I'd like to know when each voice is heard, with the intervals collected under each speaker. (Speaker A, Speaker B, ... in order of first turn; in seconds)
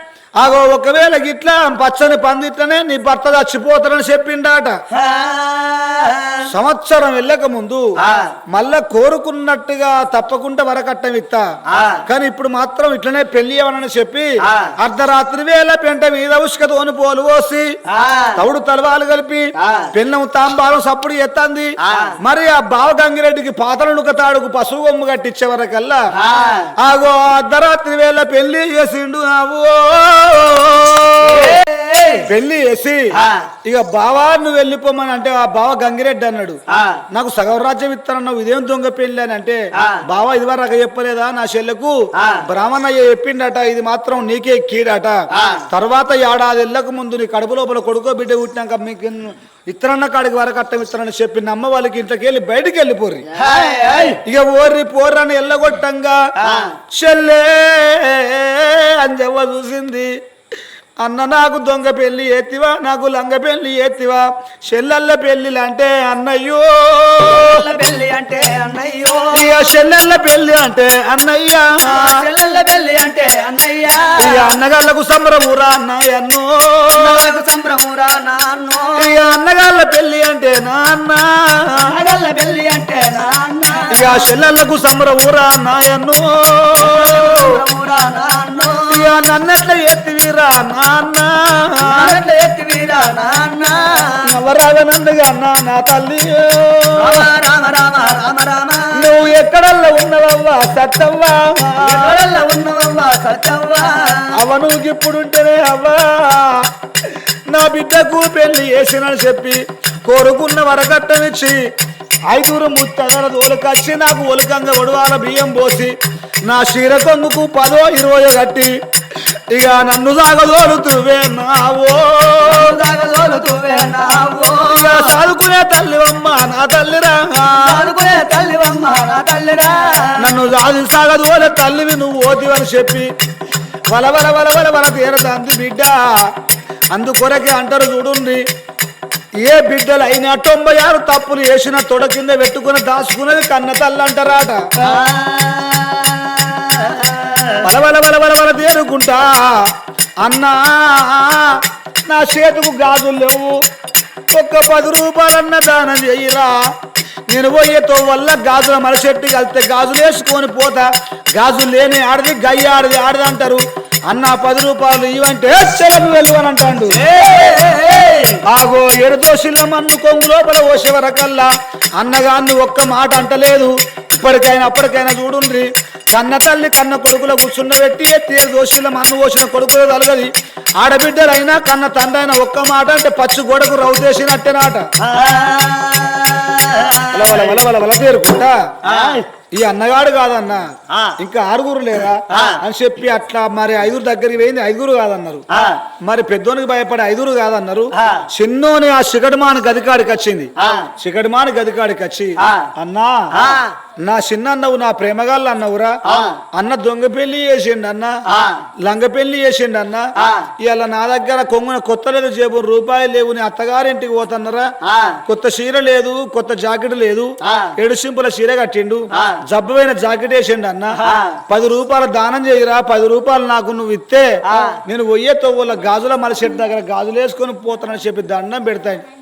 Speaker A: 0.4-4.8, 6.4-7.9, 8.5-11.5, 12.0-17.8, 18.3-26.0, 26.8-31.6, 32.2-53.3, 54.2-56.2, 56.9-60.1, 61.0-67.6, 69.3-72.2, 74.2-77.3, 79.0-81.9, 83.9-87.6, 88.9-92.2, 94.2-97.3, 98.9-102.2, 104.3-106.6, 107.5-111.6, 112.3-115.9, 116.5-118.7, 119.5-122.8, 124.7-127.8, 130.2-133.1, 133.9-136.3, 136.9-138.4, 139.4-144.8, 147.6-149.7, 150.2-153.6, 154.3-156.6, 157.3-167.0, 168.4-184.9, 187.1-188.7, 189.5-190.7, 191.2-195.4, 196.0-203.3, 204.0-206.0, 206.5-208.2, 208.8-210.1, 210.6-214.7, 215.2-229.0
Speaker B: 4.9-6.5, 8.0-8.3, 11.7-12.1, 14.5-14.7, 17.9-18.4, 19.6-19.9, 21.8-22.1, 26.1-26.7, 31.2-32.2, 33.1-33.5, 36.7-37.0, 39.8-40.0, 42.2-42.4, 45.3-45.6, 53.3-54.2, 56.4-56.7, 67.2-69.5, 71.8-74.5, 76.9-79.2, 81.8-84.2, 86.8-89.2, 91.8-94.2, 97.0-99.1, 101.8-104.3, 122.4-125.2, 127.6-130.3, 144.8-147.7, 166.9-168.4, 185.0-187.6, 188.8-189.3, 192.3-192.6, 195.5-195.8, 200.6-200.8, 202.4-202.7, 203.3-203.7, 206.1-206.4, 208.3-208.6, 210.2-210.5, 214.8-215.2, 217.4-217.7, 219.1-219.4, 221.0-221.4, 224.5-224.8